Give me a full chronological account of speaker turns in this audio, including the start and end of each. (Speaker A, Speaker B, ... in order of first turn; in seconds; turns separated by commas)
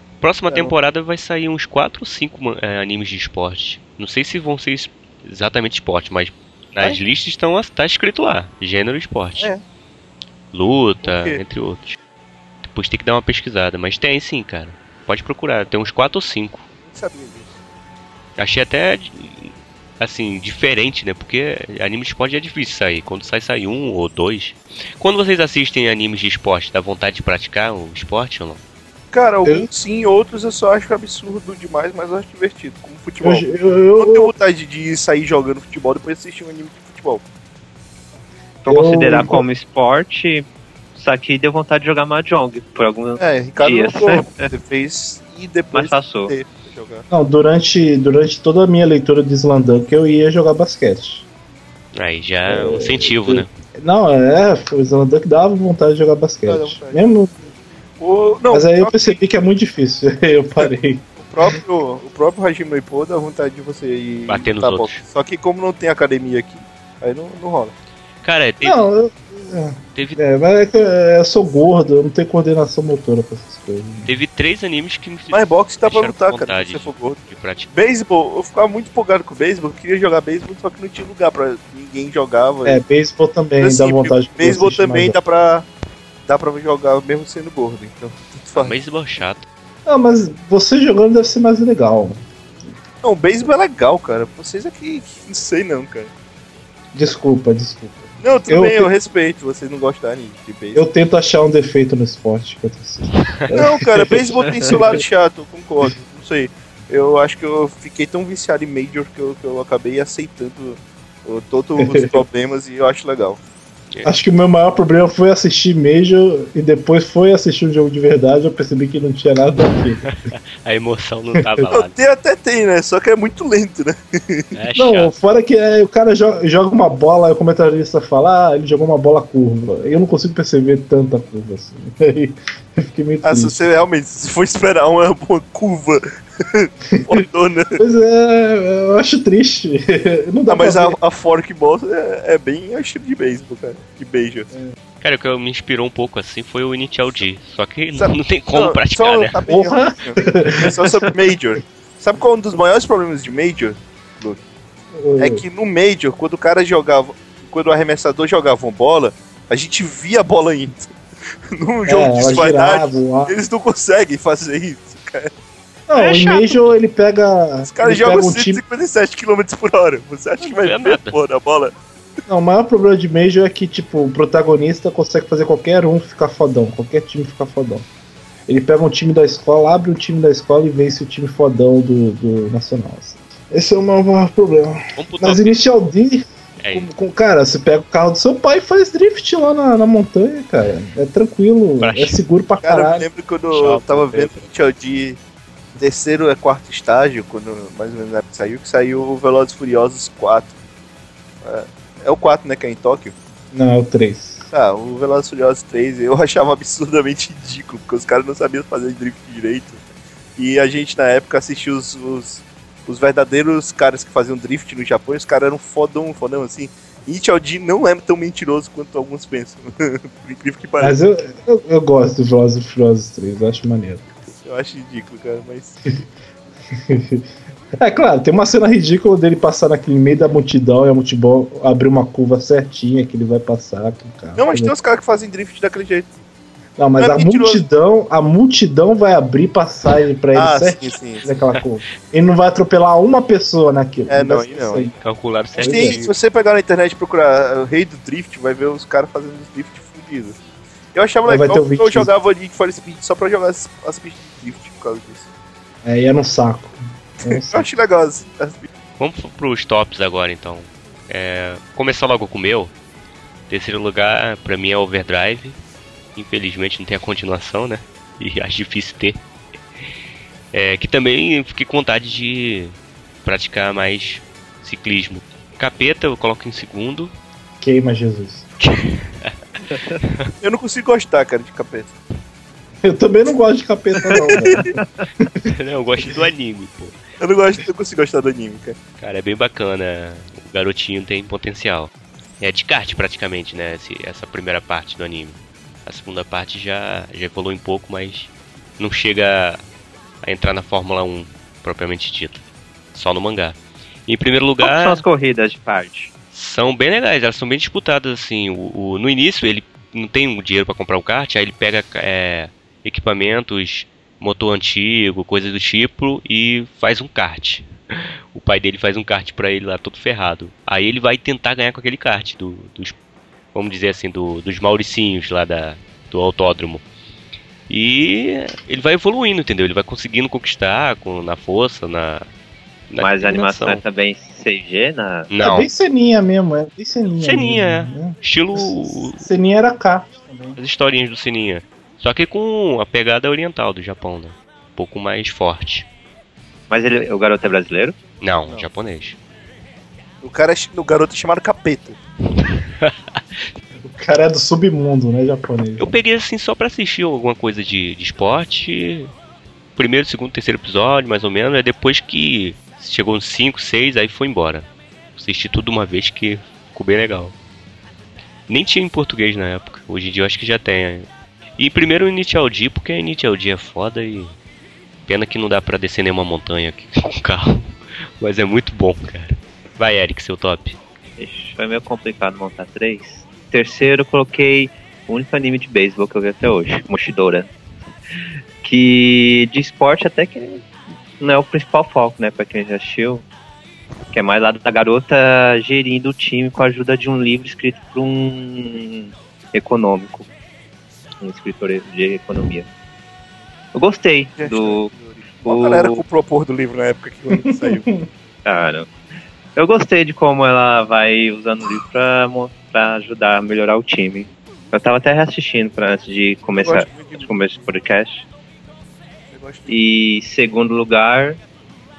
Speaker A: 0.2-9.5, Speaker B: 0.5-0.7, Speaker B: 9.4-9.6, Speaker A: 10.5-12.0, Speaker B: 11.0-11.4, Speaker A: 12.6-16.6, Speaker B: 16.8-17.6, Speaker A: 18.4-28.6, Speaker B: 29.1-37.2, Speaker C: 29.4-29.7, Speaker C: 33.2-34.3, Speaker D: 38.6-44.5, Speaker C: 38.7-39.4, Speaker B: 43.2-47.0, Speaker D: 45.7-46.3, Speaker C: 47.1-51.3, Speaker A: 51.9-53.5, Speaker C: 52.4-57.4, Speaker B: 56.4-57.0, Speaker B: 58.0-59.1, Speaker C: 58.5-61.6, Speaker B: 61.2-67.7, Speaker A: 64.3-65.0, Speaker A: 68.2-68.8, Speaker C: 68.6-74.1, Speaker A: 74.0-77.7, Speaker B: 75.3-77.2, Speaker B: 77.7-82.8, Speaker C: 82.6-85.2, Speaker B: 83.6-85.7, Speaker B: 86.3-88.7, Speaker A: 88.5-89.4, Speaker C: 89.8-92.2, Speaker B: 93.0-96.1, Speaker C: 96.9-98.9, Speaker B: 98.2-100.8, Speaker C: 100.7-105.0, Speaker A: 103.1-103.5, Speaker B: 103.5-113.4, Speaker C: 111.8-112.2, Speaker C: 114.0-120.0, Speaker A: 120.0-121.9, Speaker B: 121.7-124.5, Speaker A: 124.5-125.1, Speaker C: 124.8-133.6, Speaker B: 133.2-137.8, Speaker C: 137.8-141.0, Speaker B: 140.5-144.5, Speaker A: 145.0-149.4, Speaker B: 147.9-154.4, Speaker C: 149.5-150.9, Speaker C: 154.9-155.4, Speaker B: 155.2-160.9, Speaker B: 161.5-165.3, Speaker C: 161.8-163.3, Speaker C: 165.9-168.6, Speaker A: 165.9-166.7, Speaker B: 167.6-171.7, Speaker A: 170.4-171.2, Speaker C: 172.3-177.9, Speaker C: 178.5-193.1, Speaker A: 184.9-185.6, Speaker A: 186.6-186.9, Speaker A: 191.8-192.2, Speaker B: 192.6-195.2, Speaker A: 193.5-194.5, Speaker B: 195.8-200.5, Speaker B: 201.4-203.2, Speaker C: 203.5-204.5, Speaker B: 204.5-209.8, Speaker B: 210.4-220.9, Speaker C: 220.8-224.1, Speaker B: 224.4-225.8, Speaker C: 226.7-227.2, Speaker C: 227.8-234.7, Speaker B: 234.3-236.1, Speaker C: 236.8-244.9, Speaker B: 237.0-237.6, Speaker B: 240.3-241.2, Speaker B: 244.1-244.9, Speaker A: 245.0-246.1, Speaker C: 245.6-246.0, Speaker B: 245.6-250.4, Speaker B: 250.9-255.3, Speaker C: 251.2-252.1, Speaker C: 255.8-257.7, Speaker B: 257.3-258.7, Speaker A: 259.0-262.7, Speaker A: 263.5-265.6, Speaker A: 266.1-269.2, Speaker A: 270.5-277.1, Speaker C: 277.6-278.4, Speaker A: 278.6-279.3, Speaker D: 279.7-280.0, Speaker A: 280.0-280.3, Speaker B: 280.4-282.0, Speaker C: 282.8-285.4, Speaker B: 284.2-284.7, Speaker A: 285.5-287.0, Speaker B: 287.2-288.8, Speaker A: 289.0-299.6, Speaker A: 300.2-305.0, Speaker D: 304.6-306.1, Speaker A: 306.3-322.9, Speaker A: 323.5-326.8, Speaker A: 327.7-332.2, Speaker A: 332.9-333.8, Speaker D: 333.0-335.3, Speaker A: 335.3-335.7, Speaker C: 335.4-340.6, Speaker A: 337.2-339.2, Speaker A: 340.6-345.9, Speaker D: 346.7-347.9, Speaker A: 348.2-349.2, Speaker B: 350.2-352.0, Speaker C: 353.8-355.9, Speaker A: 355.8-359.1, Speaker A: 359.8-367.3, Speaker A: 368.5-374.3, Speaker A: 375.1-380.8, Speaker D: 381.2-387.5, Speaker D: 388.6-390.6, Speaker D: 391.2-393.2, Speaker D: 394.1-400.3, Speaker D: 401.2-402.7, Speaker D: 403.7-404.9, Speaker B: 404.4-407.9, Speaker D: 405.4-406.0, Speaker C: 407.3-407.9, Speaker D: 408.4-408.9, Speaker D: 409.6-418.2, Speaker B: 416.6-417.4, Speaker B: 419.3-419.7, Speaker D: 419.7-421.4